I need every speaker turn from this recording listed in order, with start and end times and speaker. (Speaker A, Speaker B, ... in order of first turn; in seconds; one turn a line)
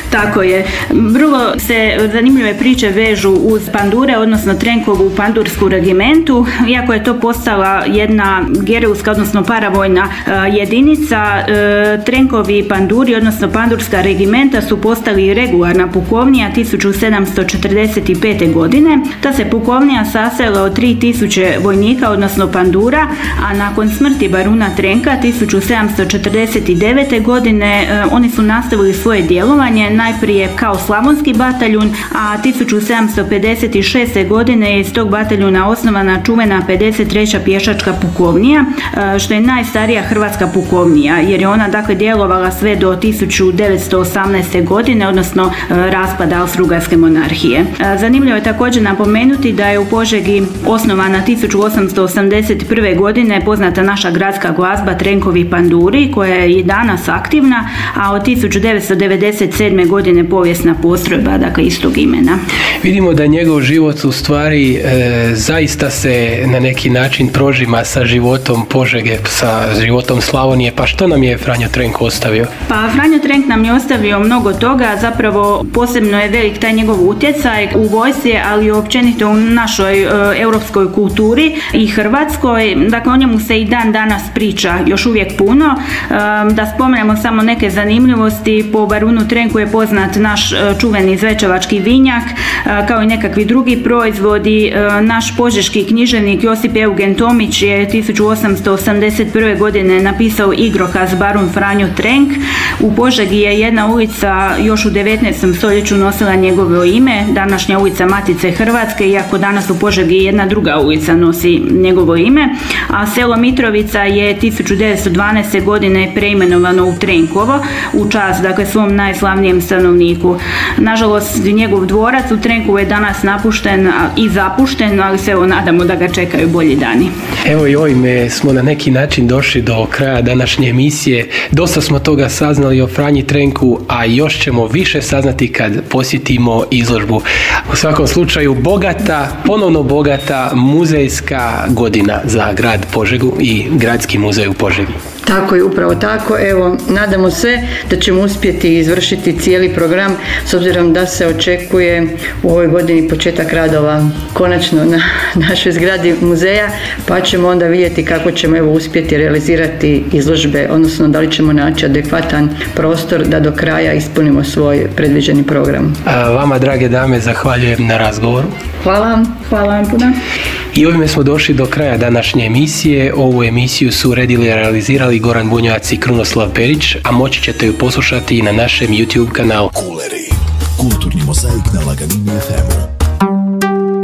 Speaker A: 0.1-62.4
Speaker B: 62.8-72.5
Speaker A: 72.7-127.1
Speaker B: 127.5-144.9
Speaker C: 145.2-166.0
Speaker B: 166.1-168.5
Speaker C: 168.8-169.4
Speaker A: 169.4-170.2
Speaker B: 170.7-179.7
Speaker D: 179.8-182.9